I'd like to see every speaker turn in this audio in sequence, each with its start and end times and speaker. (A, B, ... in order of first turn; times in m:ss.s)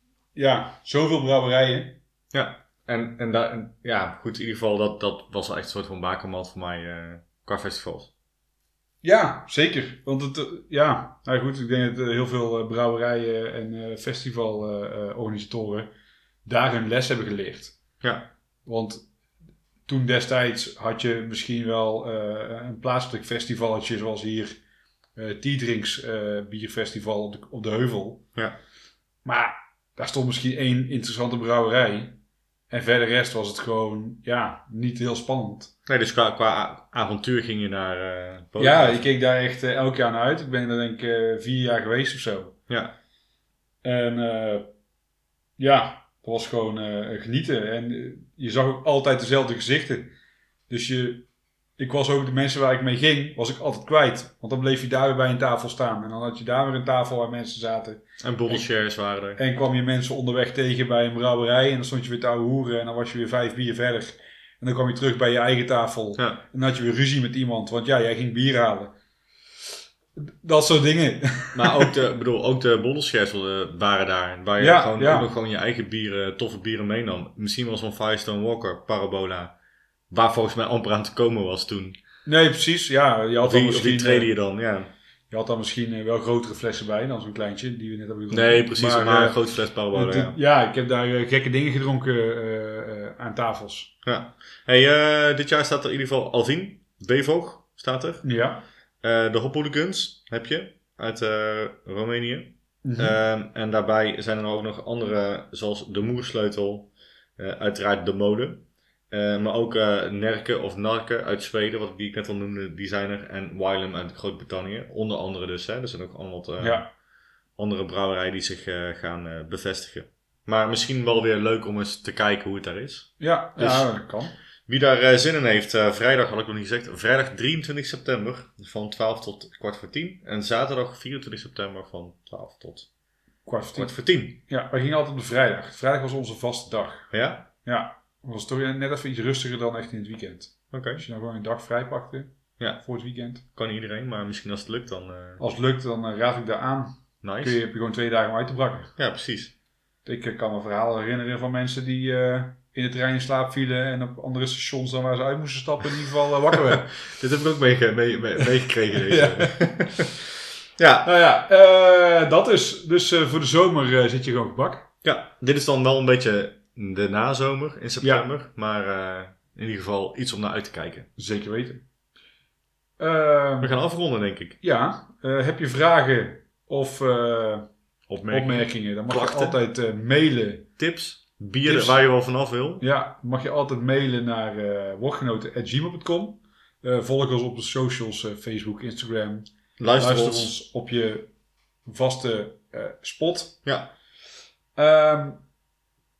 0:00.3-0:02.0 A
0:02.3-0:08.1 B
0:09.0-0:15.9 A
0:16.4-0:17.8 A
0:18.0-0:18.3 B
0:18.6-0:19.0 A
0:19.9-0:24.6 A
0:25.2-0:28.2 A
0:29.2-0:35.7 A
0:35.8-0:39.0 B
0:38.6-0:42.6 A
0:42.7-0:42.9 B
0:43.8-0:44.7 A
0:45.6-0:50.1 A
0:50.7-0:58.7 A
0:58.2-0:59.4 B
0:59.4-1:08.9 A
1:10.2-1:11.9 A
1:11.5-1:19.5 B
1:14.6-1:15.3 A
1:20.1-1:22.0 B
1:22.2-1:24.3 A
1:23.4-1:24.9 B
1:25.3-1:29.4 A
1:28.3-1:30.4 B
1:29.9-1:33.9 A
1:34.0-1:38.2 B
1:38.2-1:38.6 A
1:39.0-1:56.8 B
1:42.8-1:43.2 A
1:56.6-1:56.9 A
1:57.6-2:03.9 B
2:03.2-2:04.4 A
2:04.7-2:12.9 B
2:13.4-2:13.9 A
2:13.8-2:14.4 B
2:14.5-2:17.1 A
2:17.1-2:17.5 B
2:17.6-2:23.4 A
2:20.7-2:21.0 B
2:23.5-2:25.4 B
2:25.4-2:28.9 A
2:27.2-2:27.6 B
2:29.0-2:29.5 B
2:30.0-2:36.9 A
2:36.5-2:40.2 B
2:38.9-2:40.0 A
2:40.8-2:41.1 B
2:41.0-2:44.9 A
2:45.0-2:51.1 B
2:48.0-2:48.2 A
2:51.2-2:51.8 A
2:53.0-2:53.8 A
2:53.6-2:54.6 B
2:54.6-2:57.7 A
2:58.1-2:59.6 B
2:58.3-3:00.7 A
3:00.8-3:02.8 B
3:01.6-3:02.0 A
3:02.8-3:09.4 A
3:09.8-3:10.5 B
3:10.0-3:11.3 A
3:11.8-3:13.6 A
3:13.6-3:13.9 B
3:14.8-3:15.4 A